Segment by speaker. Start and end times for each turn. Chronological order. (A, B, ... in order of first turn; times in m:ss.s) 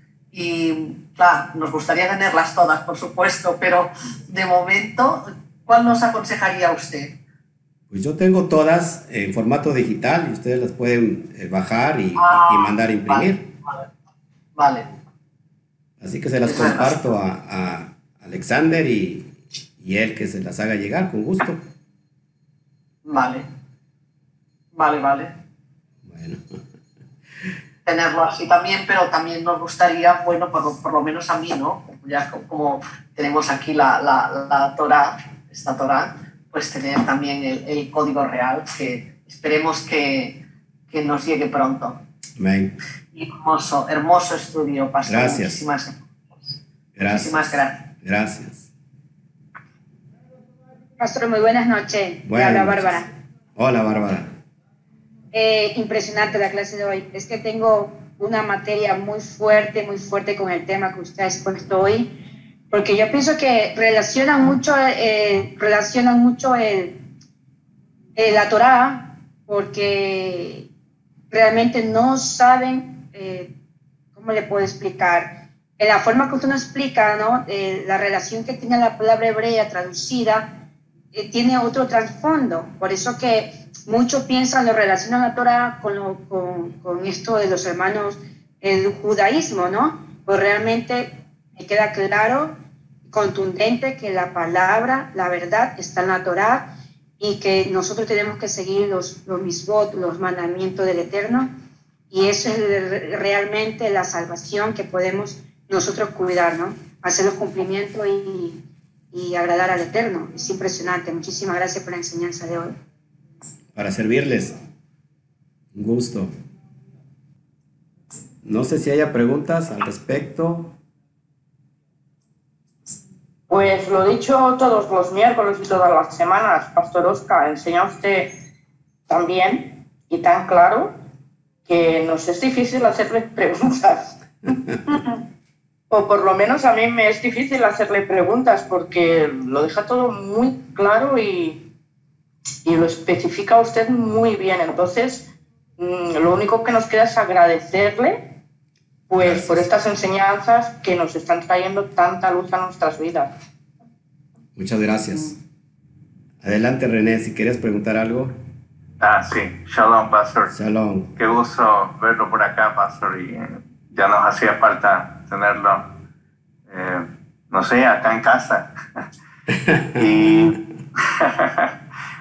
0:00.3-0:07.2 A
0:07.9-0:13.5 B
0:12.2-0:13.9 A
0:14.6-0:14.9 A
0:16.0-0:21.6 B
0:16.4-0:17.1 A
0:23.0-0:23.5 A
0:24.7-0:25.3 A
0:26.0-0:26.4 B
0:27.8-0:40.4 A
0:40.9-0:42.0 A
0:42.4-0:42.7 B
0:43.1-0:47.8 A
0:45.0-0:45.6 B
0:47.0-0:48.7 B
0:51.0-0:53.1 C
0:52.2-0:54.3 B
0:55.3-1:02.1 C
1:02.7-1:07.0 C
1:08.2-1:10.7 C
1:11.3-1:13.5 C
1:14.1-1:20.5 C
1:21.1-1:32.6 C
1:33.1-1:36.7 C
1:37.2-1:41.5 C
1:42.1-1:48.6 C
1:49.1-1:52.7 C
1:53.7-1:54.6 B
1:55.7-1:56.3 B
1:58.4-2:00.8 B
2:03.5-2:08.3 D
2:09.1-2:10.9 D
2:11.6-2:14.1 D
2:15.9-2:21.6 D
2:22.6-2:28.2 D
2:29.1-2:33.3 D
2:29.2-2:29.7 B
2:34.6-2:35.4 B
2:36.4-2:38.3 B
2:39.0-2:40.5 E
2:40.5-2:41.2 B
2:41.2-2:45.9 E
2:46.7-2:49.0 E
2:49.7-2:50.0 B
2:50.0-2:51.7 E